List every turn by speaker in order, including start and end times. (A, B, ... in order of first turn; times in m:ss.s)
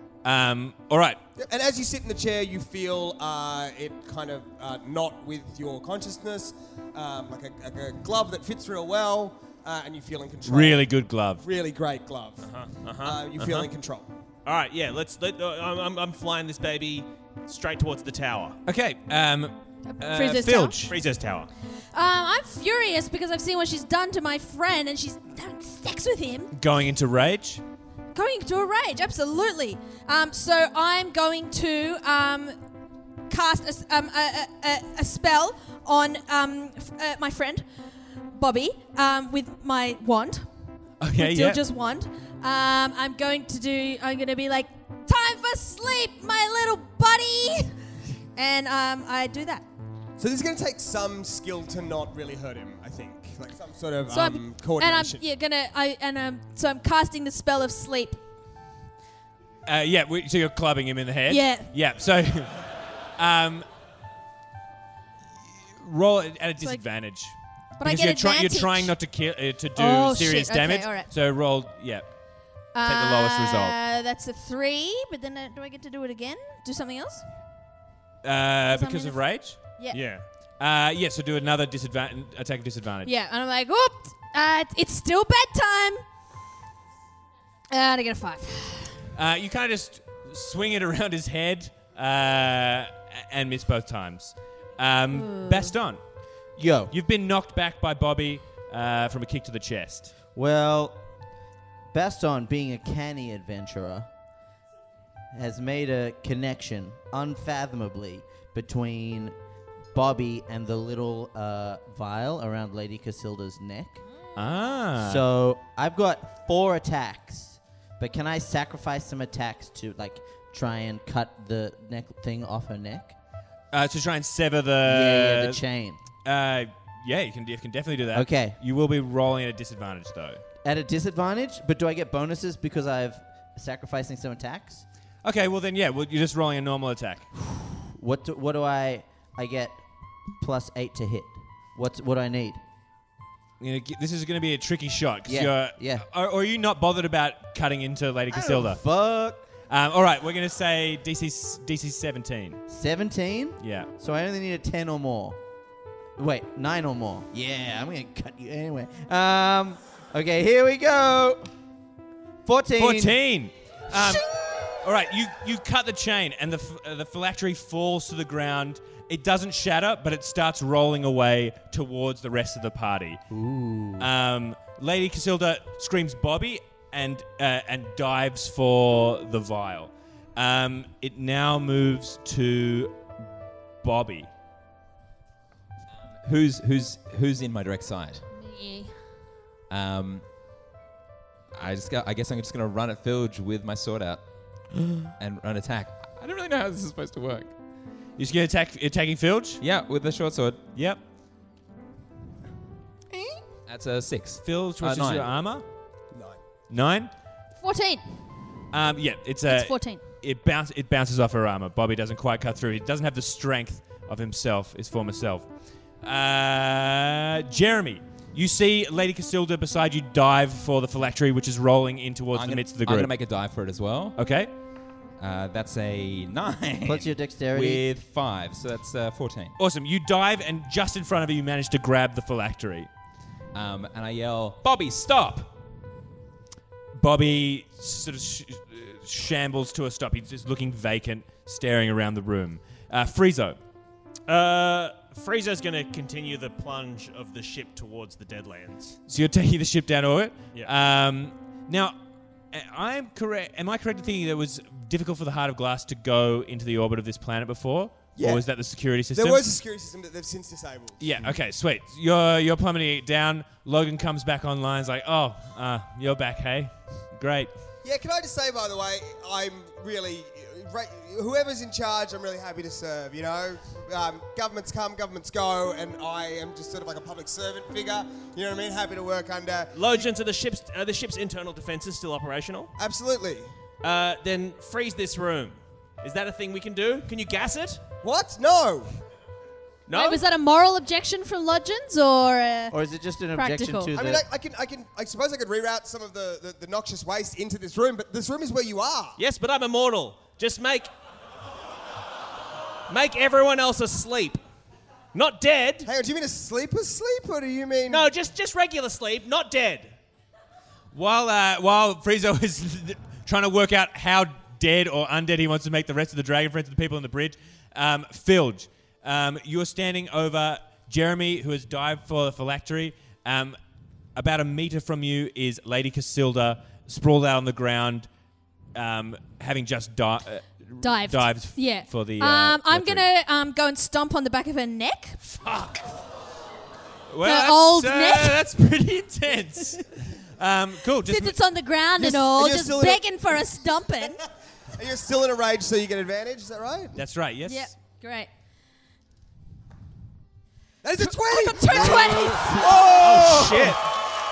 0:00.2-0:01.2 A
0:01.4-0:10.9 B
0:10.4-0:11.4 A
0:11.4-0:14.1 B
0:12.4-0:13.7 C
0:14.4-0:18.6 C
0:18.6-0:20.9 A
0:19.9-0:20.8 D
0:20.9-0:21.5 C
0:21.9-0:26.5 D
0:26.5-0:27.6 A
0:28.1-0:32.5 D
0:33.3-0:37.6 D
0:38.3-0:40.5 D
0:41.0-0:41.6 A
0:41.2-0:47.7 D
0:48.4-0:49.6 D
0:50.2-0:55.2 B
0:54.1-0:58.2 D
0:59.6-1:03.6 A
1:01.3-1:01.7 D
1:05.8-1:12.2 A
1:06.6-1:06.8 D
1:07.8-1:08.9 D
1:09.8-1:11.1 D
1:12.7-1:17.2 D
1:12.8-1:13.7 A
1:18.2-1:19.7 A
1:18.7-1:20.0 D
1:19.9-1:20.2 C
1:20.6-1:23.1 A
1:23.0-1:26.0 D
1:27.7-1:29.0 D
1:29.1-1:36.0 A
1:35.1-1:35.7 D
1:36.6-1:36.9 E
1:36.9-1:40.2 A
1:40.3-1:41.0 E
1:41.9-1:44.1 E
1:45.3-1:49.3 E
1:49.9-1:54.0 E
1:54.3-1:55.2 A
1:55.0-2:03.1 E
2:03.7-2:05.6 A
2:04.8-2:06.0 E
2:06.2-2:10.4 A
2:08.1-2:08.6 E
2:10.6-2:14.8 E
2:15.2-2:17.3 A
2:17.9-2:19.8 E
2:20.4-2:22.6 E
2:23.6-2:28.8 A
2:25.3-2:26.0 E
2:28.3-2:29.4 E
2:29.7-2:32.6 A
2:32.7-2:35.4 E
2:33.6-2:33.9 A
2:36.2-2:41.5 E
2:42.4-2:43.2 E
2:42.8-2:53.2 A
2:53.3-2:54.1 E
2:54.0-3:03.0 A
3:03.8-3:04.3 A
3:06.2-3:08.2 F
3:08.3-3:08.9 D
3:09.7-3:10.2 F
3:11.5-3:14.2 F
3:15.2-3:17.5 F
3:18.2-3:19.6 A
3:19.6-3:20.6 F
3:20.7-3:21.0 A
3:23.1-3:23.4 E
3:23.6-3:25.3 F
3:24.4-3:25.6 A
3:26.1-3:26.4 B
3:26.7-3:27.1 A
3:27.6-3:28.0 D
3:28.7-3:35.5 A
3:29.5-3:30.0 D
3:36.0-3:43.1 A
3:42.3-3:44.2 F
3:44.2-3:44.5 A
3:45.2-3:49.6 F
3:46.8-3:47.8 E
3:49.6-3:52.9 A
3:53.5-3:55.5 F
3:56.9-4:03.6 A
4:04.3-4:09.0 C
4:09.1-4:12.0 A
4:12.5-4:19.5 A
4:18.2-4:18.4 B
4:19.2-4:21.0 B
4:21.0-4:27.5 A
4:27.8-4:40.0 B
4:39.7-4:42.7 C
4:42.8-4:43.5 B
4:43.8-4:47.8 C
4:48.0-4:48.9 B
4:49.9-4:50.2 C
4:49.9-4:52.7 D
4:52.7-4:54.2 E
4:53.3-4:53.9 D
4:53.9-4:59.2 B
4:59.2-5:00.9 C
5:02.9-5:04.4 C
5:05.1-5:05.9 C
5:05.8-5:08.1 B
5:07.9-5:09.9 C
5:10.9-5:23.6 A
5:24.2-5:28.1 A
5:28.7-5:33.0 A
5:30.8-5:35.2 D
5:35.3-5:36.0 A
5:37.1-5:41.4 A
5:37.2-5:38.4 D
5:41.1-5:44.2 D
5:42.0-5:43.0 B
5:44.8-5:46.9 B
5:46.9-5:47.7 A
5:47.5-5:48.3 D
5:50.8-5:52.2 B
5:51.1-5:52.6 D
5:51.7-5:53.8 E
5:52.6-5:53.8 C